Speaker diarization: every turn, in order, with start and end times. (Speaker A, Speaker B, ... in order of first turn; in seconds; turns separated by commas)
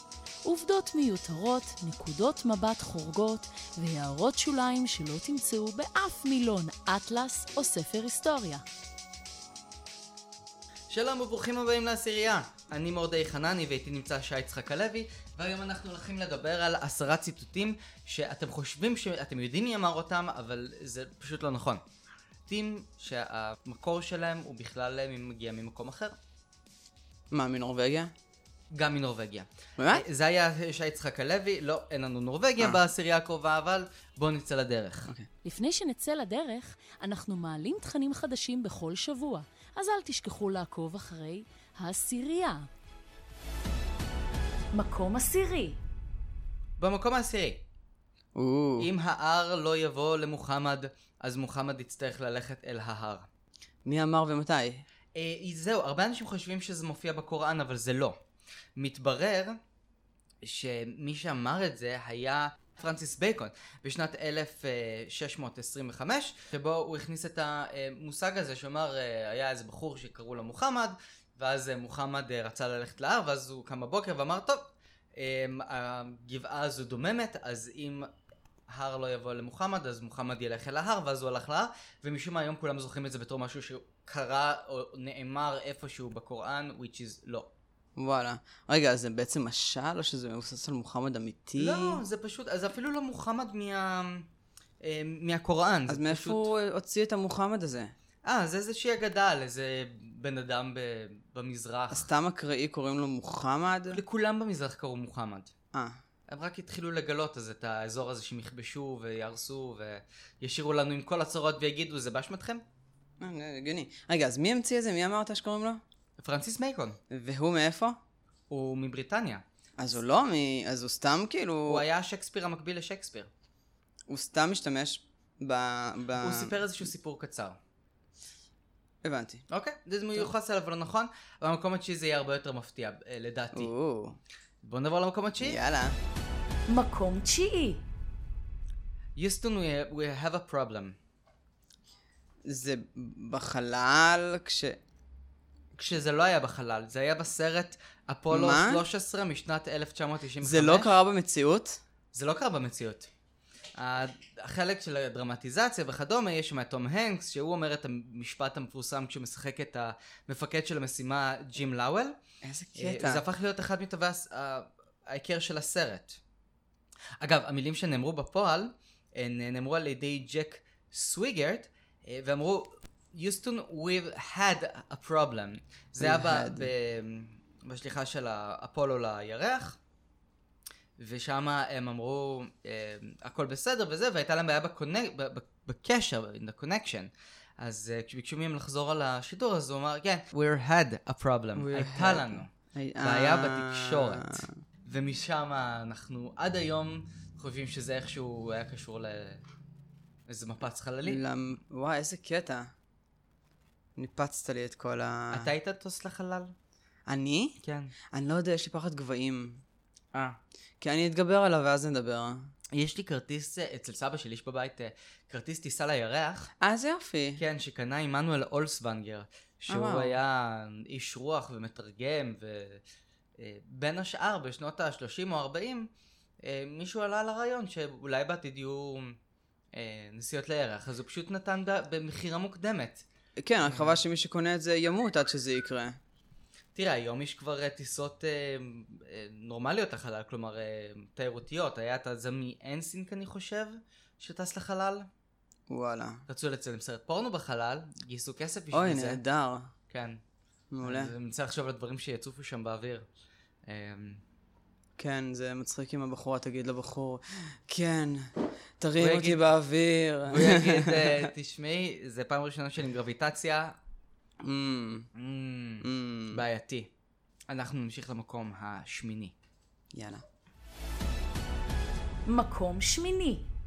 Speaker A: 0.4-8.6, Speaker B: 10.9-21.8, Speaker B: 22.5-26.1, Speaker C: 27.3-28.1, Speaker B: 28.7-35.1, Speaker C: 29.8-30.1, Speaker A: 35.4-42.7, Speaker A: 44.7-45.8, Speaker B: 46.8-47.6, Speaker C: 48.3-48.9, Speaker B: 48.8-53.3, Speaker C: 53.8-54.8, Speaker B: 55.1-58.2, Speaker B: 58.8-59.6, Speaker B: 60.4-78.1, Speaker B: 78.7-87.5, Speaker C: 88.0-92.0, Speaker B: 91.5-94.3, Speaker B: 94.8-96.5, Speaker C: 95.9-97.9, Speaker B: 98.2-102.1, Speaker C: 101.9-104.0, Speaker B: 103.9-105.5, Speaker B: 106.3-112.6, Speaker C: 113.2-115.8, Speaker B: 116.2-117.0, Speaker C: 117.1-118.0, Speaker B: 118.5-119.4, Speaker C: 119.8-121.8, Speaker B: 121.6-123.3, Speaker C: 124.1-126.6, Speaker B: 126.2-127.6, Speaker C: 129.0-129.4, Speaker B: 129.5-133.7, Speaker C: 133.5-134.2, Speaker B: 134.6-135.6, Speaker C: 135.4-136.0, Speaker A: 136.7-137.8, Speaker B: 139.2-140.9, Speaker C: 142.4-144.8, Speaker B: 145.7-151.0, Speaker C: 148.3-148.8, Speaker C: 150.4-151.8, Speaker B: 152.1-153.1, Speaker B: 153.8-162.2, Speaker C: 162.4-163.2, Speaker B: 162.7-166.2, Speaker B: 167.2-179.8, Speaker C: 176.0-176.7, Speaker B: 181.0-199.4, Speaker C: 191.6-194.6, Speaker B: 200.3-201.2, Speaker C: 201.0-202.7, Speaker C: 204.0-205.5, Speaker B: 205.3-206.5, Speaker C: 207.1-207.6, Speaker B: 207.6-207.9, Speaker C: 208.1-209.6, Speaker B: 210.1-210.4, Speaker C: 210.8-212.5, Speaker B: 212.7-216.5, Speaker C: 216.6-217.4, Speaker B: 217.4-222.8, Speaker C: 219.7-220.2, Speaker B: 223.4-225.9, Speaker B: 226.4-229.2, Speaker B: 229.7-233.0, Speaker C: 233.4-236.0, Speaker B: 233.6-234.0, Speaker B: 236.7-245.1, Speaker C: 245.7-246.2, Speaker B: 246.3-249.2, Speaker C: 248.7-249.7, Speaker B: 249.9-250.2, Speaker C: 250.7-251.1, Speaker B: 250.8-253.0, Speaker B: 253.7-254.2, Speaker C: 255.0-261.3, Speaker B: 258.9-259.5, Speaker B: 260.3-263.8, Speaker C: 264.4-265.1, Speaker B: 265.1-266.9, Speaker C: 265.8-266.4, Speaker B: 267.5-269.3, Speaker C: 269.9-270.2, Speaker A: 272.3-273.5